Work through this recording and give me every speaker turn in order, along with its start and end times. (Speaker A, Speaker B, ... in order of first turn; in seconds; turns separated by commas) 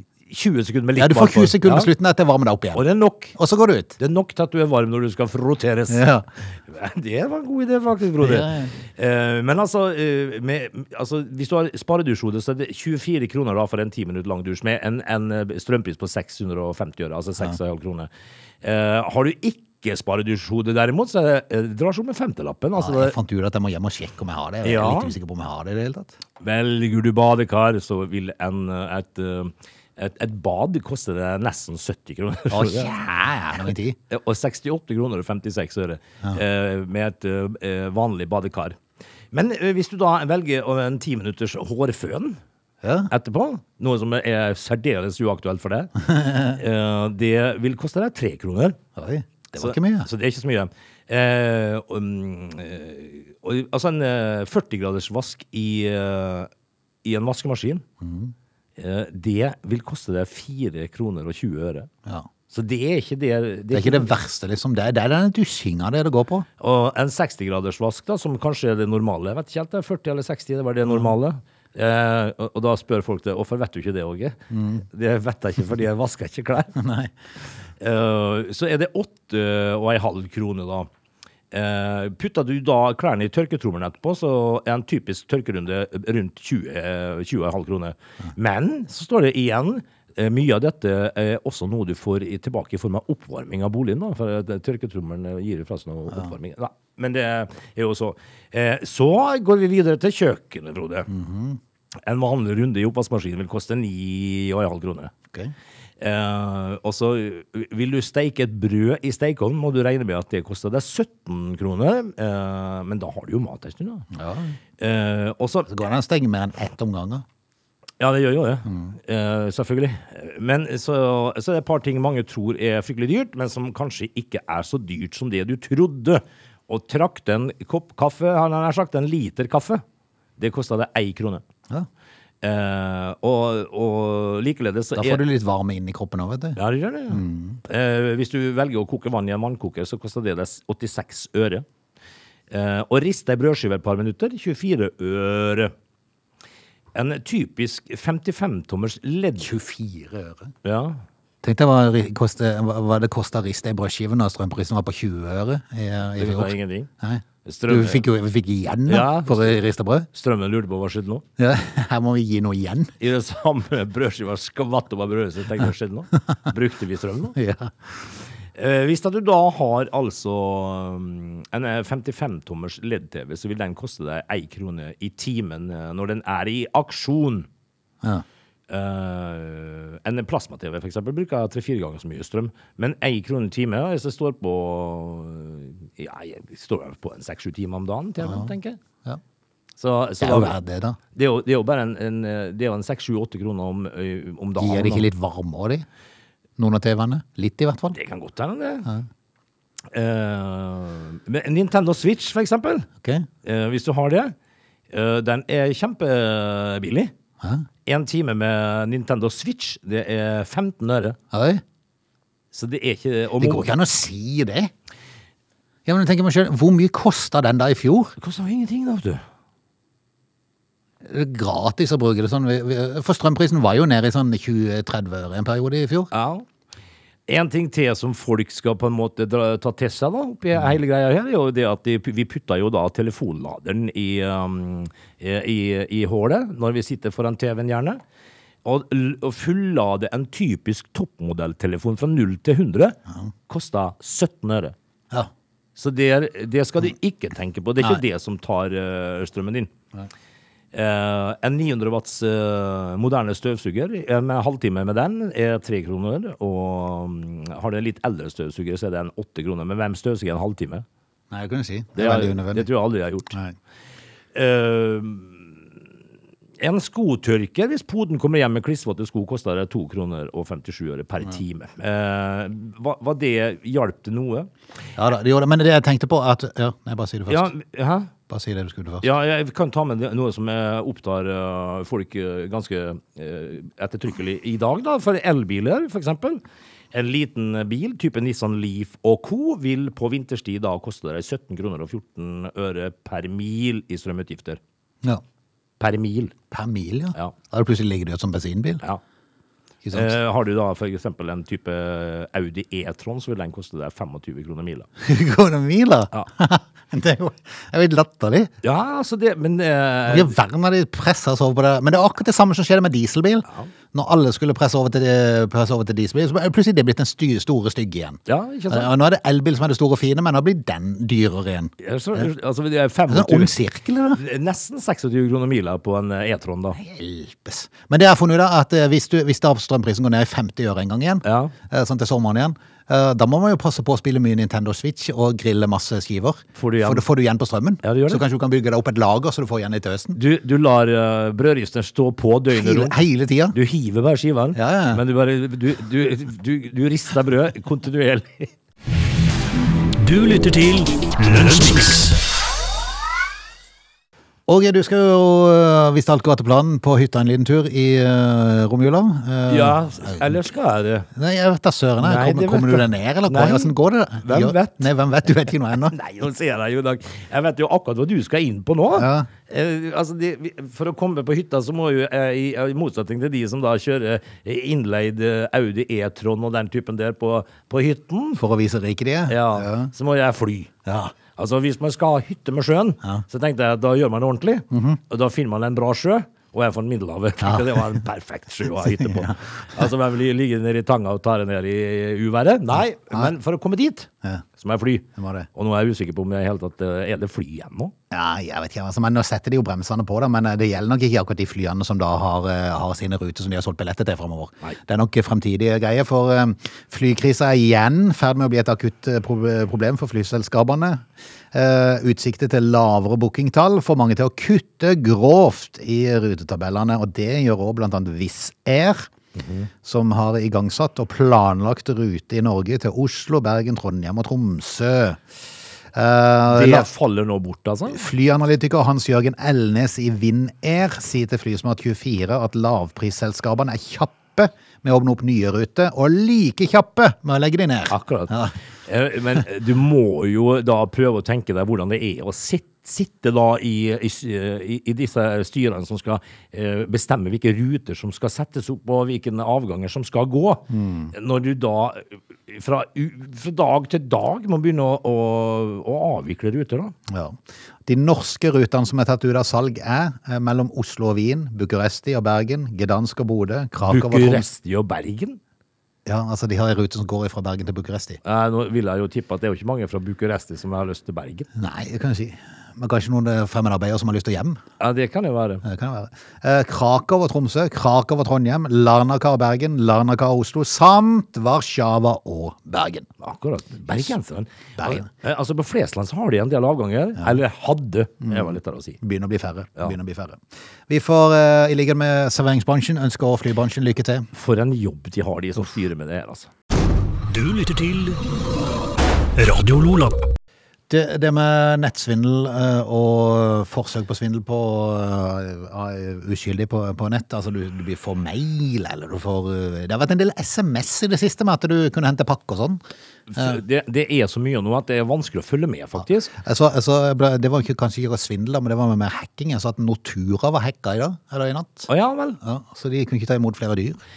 Speaker A: 0.3-1.9, Speaker B: 1.0-4.0, Speaker A: 2.8-3.4, Speaker A: 4.0-6.1, Speaker B: 5.9-6.2, Speaker A: 6.7-18.1, Speaker B: 8.2-8.7, Speaker A: 18.6-23.1, Speaker B: 22.8-26.1, Speaker A: 24.6-25.1, Speaker A: 26.4-32.9, Speaker B: 32.5-34.0, Speaker A: 34.1-38.8, Speaker A: 39.3-42.4, Speaker B: 42.8-43.1, Speaker A: 43.1-45.9, Speaker B: 46.0-46.6, Speaker A: 46.5-48.8, Speaker B: 49.0-50.1, Speaker A: 49.5-56.5, Speaker A: 57.0-57.8, Speaker B: 58.0-58.3, Speaker A: 58.8-61.9, Speaker A: 62.5-64.1, Speaker B: 63.7-66.5, Speaker A: 66.6-76.8, Speaker B: 74.5-74.8, Speaker B: 76.8-77.1, Speaker A: 77.8-80.9, Speaker A: 81.5-101.1, Speaker B: 101.1-101.6, Speaker A: 102.0-105.1, Speaker A: 106.0-114.1, Speaker B: 114.1-114.6, Speaker A: 114.8-115.7, Speaker B: 115.7-117.2, Speaker A: 118.0-129.8, Speaker B: 118.7-118.9, Speaker A: 130.4-131.4, Speaker A: 132.4-135.2, Speaker B: 135.0-136.6, Speaker A: 136.6-141.7, Speaker B: 137.1-137.6, Speaker A: 142.5-145.7, Speaker A: 146.9-149.5, Speaker B: 149.4-150.5, Speaker A: 150.6-151.0, Speaker B: 151.4-160.1, Speaker A: 156.2-156.9, Speaker A: 157.4-158.1, Speaker A: 158.9-159.6, Speaker A: 160.1-161.2, Speaker B: 161.4-162.9, Speaker A: 163.0-167.4, Speaker B: 167.3-167.7, Speaker A: 168.6-177.5, Speaker A: 178.7-188.8, Speaker B: 188.2-188.5, Speaker A: 189.8-190.6, Speaker B: 190.2-191.0, Speaker A: 191.1-195.1, Speaker B: 194.6-195.8, Speaker B: 196.6-198.0, Speaker A: 197.9-198.9, Speaker A: 199.9-202.9, Speaker B: 203.0-203.3, Speaker A: 203.4-204.3, Speaker A: 204.9-207.1, Speaker B: 207.4-207.7, Speaker A: 207.9-211.2, Speaker B: 211.3-211.6, Speaker A: 212.5-213.7, Speaker B: 213.4-214.7, Speaker B: 215.9-218.1, Speaker A: 218.2-219.2, Speaker B: 221.0-226.1, Speaker A: 226.1-226.5, Speaker A: 227.3-238.0, Speaker A: 238.6-244.8, Speaker A: 245.8-249.7, Speaker A: 250.7-260.9, Speaker B: 261.3-262.7, Speaker A: 262.0-263.4, Speaker A: 264.3-265.6, Speaker A: 266.6-274.5, Speaker B: 275.0-277.5, Speaker A: 277.3-278.1, Speaker B: 278.3-279.1, Speaker A: 279.0-294.6, Speaker A: 295.8-296.4, Speaker B: 296.5-298.8, Speaker B: 299.8-300.1, Speaker A: 299.9-304.9, Speaker B: 305.0-308.5, Speaker A: 308.6-310.4, Speaker B: 310.1-322.3, Speaker A: 318.3-318.9, Speaker A: 321.8-323.6, Speaker B: 323.1-324.2, Speaker A: 324.2-326.8, Speaker B: 326.8-340.2, Speaker A: 331.2-331.5, Speaker A: 336.6-337.1, Speaker A: 337.8-338.2, Speaker A: 340.1-343.0, Speaker B: 342.5-343.6, Speaker A: 343.5-348.5, Speaker B: 344.6-345.0, Speaker C: 350.0-352.2, Speaker B: 354.5-360.3, Speaker A: 359.5-361.1, Speaker B: 361.1-365.9, Speaker A: 362.0-364.9, Speaker A: 365.9-378.4, Speaker B: 368.9-369.3, Speaker B: 378.4-379.9, Speaker A: 379.3-380.7, Speaker B: 380.9-381.1, Speaker A: 381.4-397.9, Speaker B: 384.7-385.0, Speaker B: 387.4-387.9, Speaker B: 388.8-389.6, Speaker B: 395.2-395.5, Speaker B: 398.1-419.1, Speaker A: 419.4-419.7, Speaker B: 419.8-425.2, Speaker B: 425.9-426.9, Speaker A: 426.5-428.0, Speaker B: 427.9-438.6, Speaker A: 437.9-456.9, Speaker B: 450.7-451.1, Speaker B: 457.1-464.5, Speaker A: 463.9-465.4, Speaker B: 466.1-468.2, Speaker A: 468.2-471.5, Speaker B: 471.6-474.6, Speaker A: 474.8-475.6, Speaker B: 475.6-483.1, Speaker A: 483.2-489.0, Speaker B: 484.8-485.1, Speaker B: 488.2-494.3, Speaker A: 494.3-496.5, Speaker C: 497.3-498.2, Speaker C: 499.4-500.3, Speaker B: 500.9-512.8, Speaker A: 513.3-516.3, Speaker B: 516.3-521.9, Speaker A: 521.9-522.4, Speaker B: 522.4-524.0